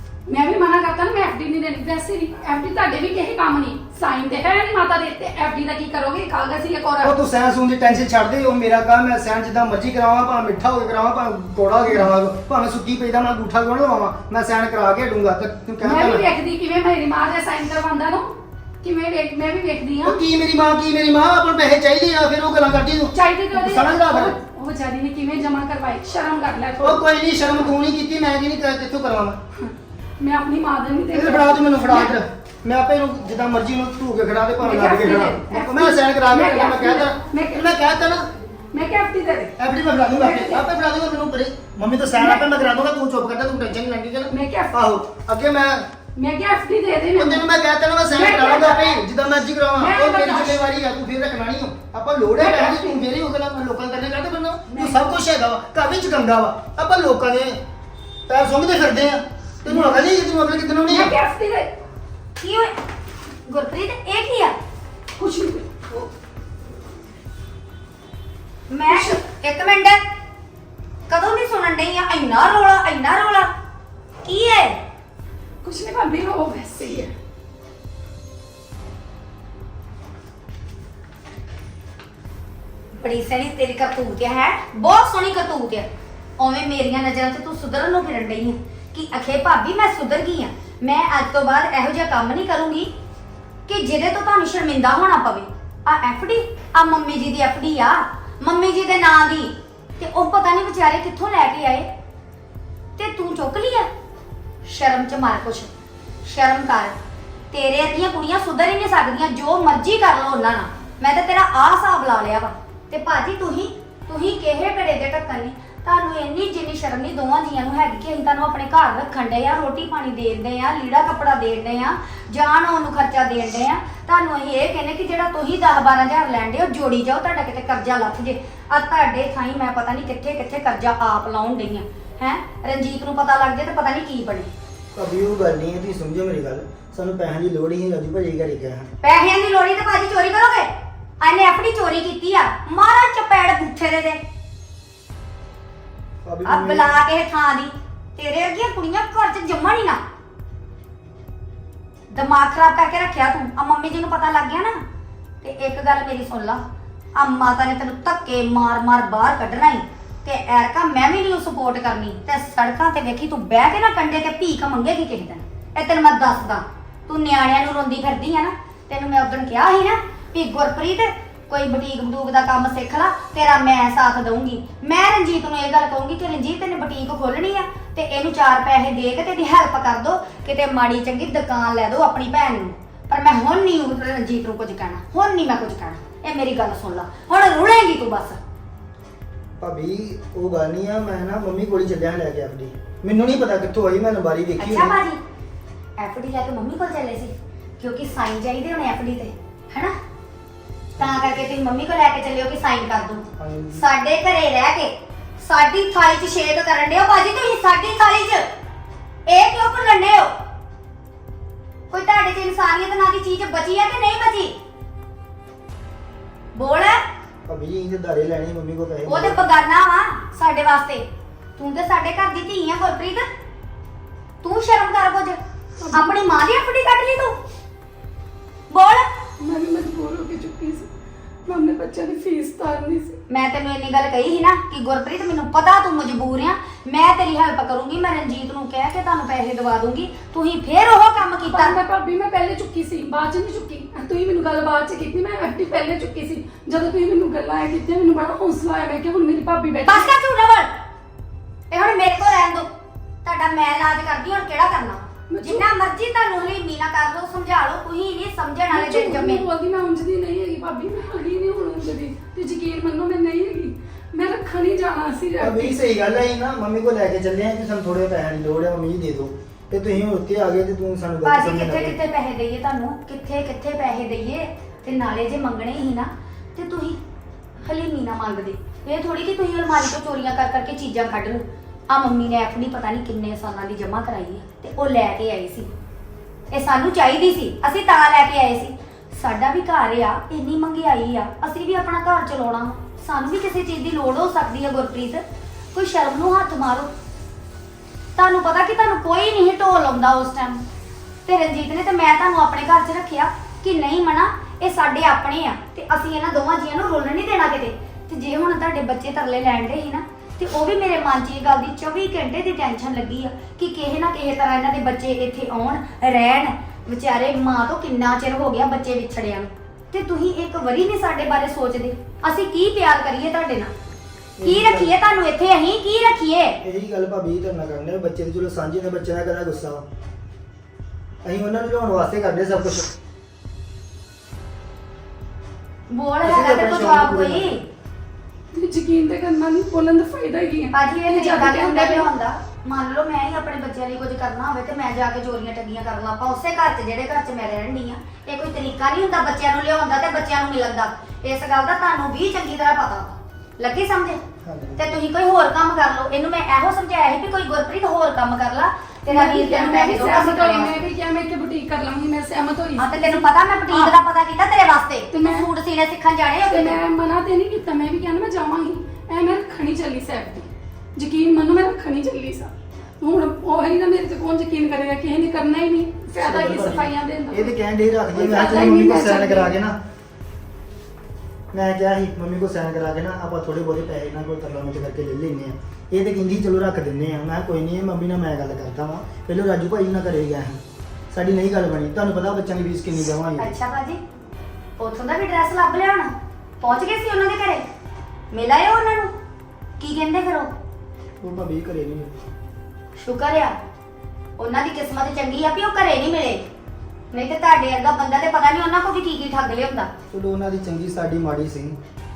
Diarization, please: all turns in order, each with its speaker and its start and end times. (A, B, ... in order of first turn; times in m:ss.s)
0:00.3-0:07.2 A
0:07.0-0:16.3 B
0:15.8-0:20.2 A
0:20.0-0:24.4 B
0:23.1-0:27.0 A
0:26.8-0:29.4 B
0:29.6-0:32.2 A
0:31.1-0:38.3 B
0:34.6-0:37.7 A
0:38.7-0:39.6 A
0:39.6-0:45.9 B
0:40.1-0:40.6 A
0:42.2-0:42.5 A
0:44.3-0:44.8 A
0:46.2-0:47.4 A
0:47.2-0:57.6 B
0:48.1-0:49.0 A
0:49.8-0:50.6 A
0:52.4-0:53.1 A
0:54.7-0:55.2 A
0:58.3-1:01.2 B
0:59.7-1:00.0 A
1:00.9-1:01.7 A
1:02.4-1:02.8 C
1:03.5-1:04.6 C
1:05.2-1:05.9 A
1:08.7-1:10.0 C
1:08.9-1:09.2 A
1:11.1-1:13.5 C
1:14.2-1:14.8 C
1:15.6-1:17.1 A
1:23.0-1:32.9 C
1:33.7-1:41.9 C
1:43.0-1:43.9 C
1:44.6-1:45.7 C
1:46.2-1:47.0 C
1:47.5-2:14.5 C
2:15.0-2:18.9 B
2:19.0-2:24.2 C
2:26.2-2:27.0 B
2:26.4-2:30.0 C
2:32.1-2:34.8 C
2:35.4-2:36.6 C
2:37.2-3:08.4 C
3:09.6-3:15.0 B
3:14.6-3:15.2 C
3:16.0-3:20.0 C
3:21.0-3:28.5 C
3:21.0-3:21.4 B
3:23.4-3:23.9 B
3:29.3-3:30.4 C
3:31.9-3:34.6 C
3:36.6-3:37.0 C
3:37.5-3:39.5 B
3:39.1-3:41.1 C
3:41.6-3:43.3 C
3:44.4-3:45.4 C
3:45.8-3:46.2 A
3:45.9-3:47.4 C
3:48.7-3:49.1 C
3:49.4-3:50.9 A
3:51.4-3:53.2 A
3:53.3-4:01.8 C
4:01.5-4:10.1 A
4:09.9-4:10.7 C
4:11.7-4:12.7 C
4:13.2-4:19.4 C
4:15.3-4:15.7 A
4:18.7-4:25.8 A
4:25.4-4:32.0 B
4:31.2-4:37.0 C
4:37.6-4:45.7 C
4:46.5-4:55.2 C
4:55.7-4:56.9 C
4:58.2-5:00.6 C
5:01.3-5:23.7 C
5:24.4-5:24.9 B
5:24.4-5:26.6 C
5:26.6-5:29.9 B
5:31.2-5:32.9 B
5:35.9-5:37.6 C
5:36.2-5:37.5 B
5:38.5-5:42.1 A
5:40.7-5:54.2 C
5:54.4-5:54.8 B
5:54.8-6:00.8 C
5:59.1-6:03.9 A
6:02.8-6:06.8 C
6:05.1-6:05.5 A
6:06.5-6:17.6 A
6:16.2-6:19.8 B
6:18.1-6:19.6 A
6:21.5-6:30.6 B
6:31.1-6:33.5 B
6:33.4-6:34.0 C
6:34.8-6:37.6 C
6:38.3-6:39.1 C
6:39.8-6:40.5 C
6:41.2-6:42.2 B
6:43.0-6:43.6 C
6:44.4-6:46.4 C
6:47.1-6:49.9 C
6:50.1-6:51.8 B